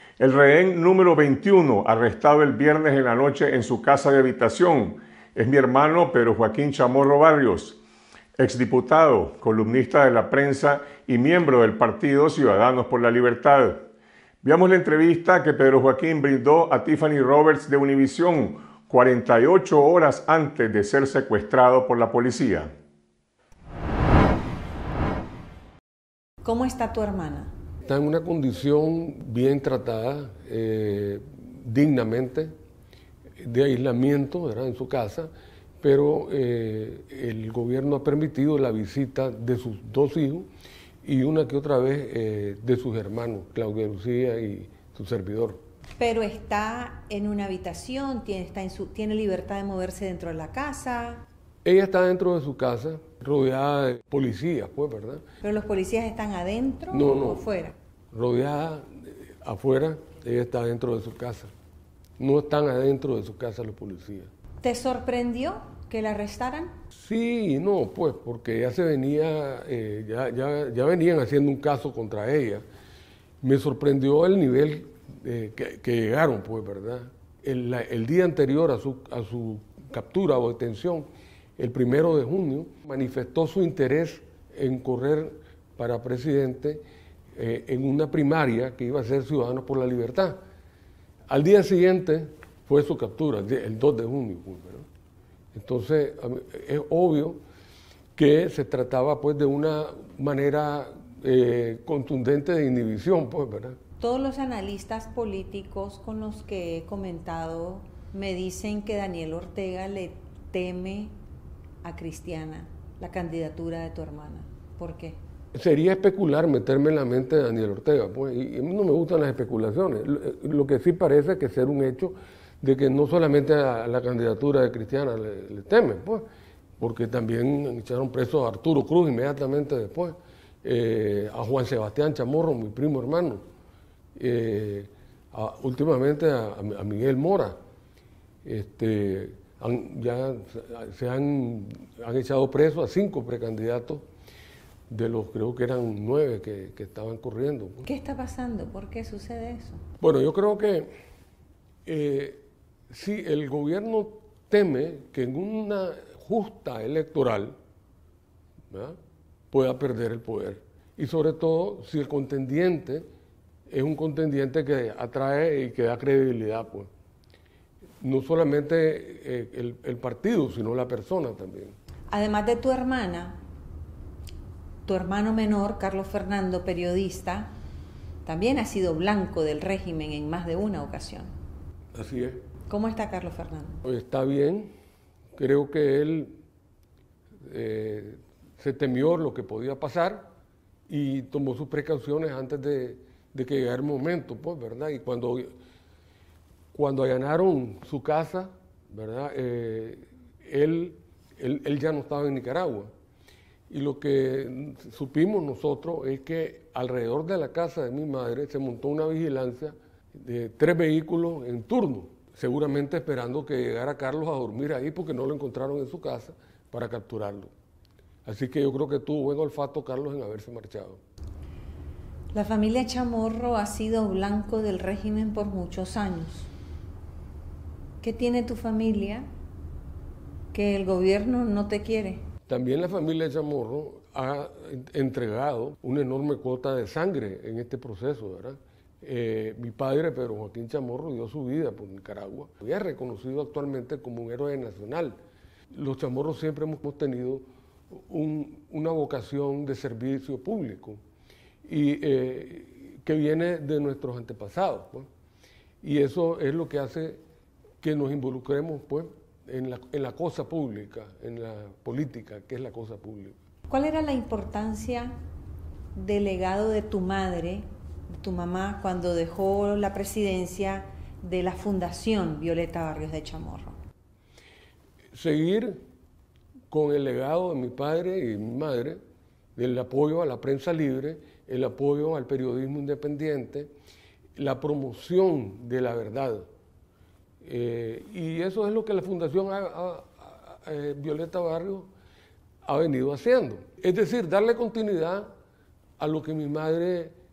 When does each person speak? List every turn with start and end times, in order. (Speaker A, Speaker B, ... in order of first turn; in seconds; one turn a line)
Speaker A: 0.2-7.8
Speaker A: 8.4-13.9
Speaker A: 14.4-22.7
Speaker B: 26.4-27.5
Speaker C: 27.8-32.5
Speaker C: 33.4-40.5
Speaker C: 41.0-45.6
Speaker B: 46.0-51.2
Speaker C: 51.6-55.2
Speaker B: 55.4-57.8
Speaker C: 56.9-57.5
Speaker C: 58.1-61.5
Speaker C: 62.2-64.3
Speaker B: 64.6-66.7
Speaker C: 66.9-72.6
Speaker C: 73.4-86.8
Speaker C: 87.3-90.4
Speaker C: 91.3-94.8
Speaker C: 95.5-97.4
Speaker C: 98.1-103.8
Speaker B: 104.0-111.1
Speaker B: 111.8-115.2
Speaker C: 115.5-126.2
Speaker C: 126.8-133.4
Speaker C: 134.2-137.6
Speaker C: 138.4-144.0
Speaker C: 144.9-147.8
Speaker B: 147.8-149.8
Speaker C: 150.0-150.9
Speaker C: 151.8-157.6
Speaker C: 158.7-159.0
Speaker C: 159.5-163.1
Speaker C: 163.7-166.9
Speaker C: 168.0-171.8
Speaker B: 172.1-173.4
Speaker B: 174.8-177.6
Speaker B: 178.2-181.3
Speaker C: 181.9-182.4
Speaker B: 182.7-183.8
Speaker C: 183.8-184.7
Speaker C: 185.3-186.4
Speaker C: 187.4-190.3
Speaker C: 190.9-195.5
Speaker C: 196.7-202.9
Speaker C: 203.7-217.5
Speaker C: 218.2-221.0
Speaker B: 222.3-226.5
Speaker B: 228.0-229.3
Speaker B: 230.5-232.2
Speaker C: 232.5-245.2
Speaker C: 245.7-251.0
Speaker C: 251.6-255.1
Speaker C: 255.8-257.2
Speaker C: 257.8-263.4
Speaker B: 263.7-265.1
Speaker B: 265.9-267.7
Speaker B: 268.2-273.8
Speaker C: 275.1-275.8
Speaker C: 276.7-279.0
Speaker C: 279.6-283.7
Speaker C: 284.4-286.5
Speaker C: 287.4-291.9
Speaker C: 292.6-295.3
Speaker C: 296.0-297.1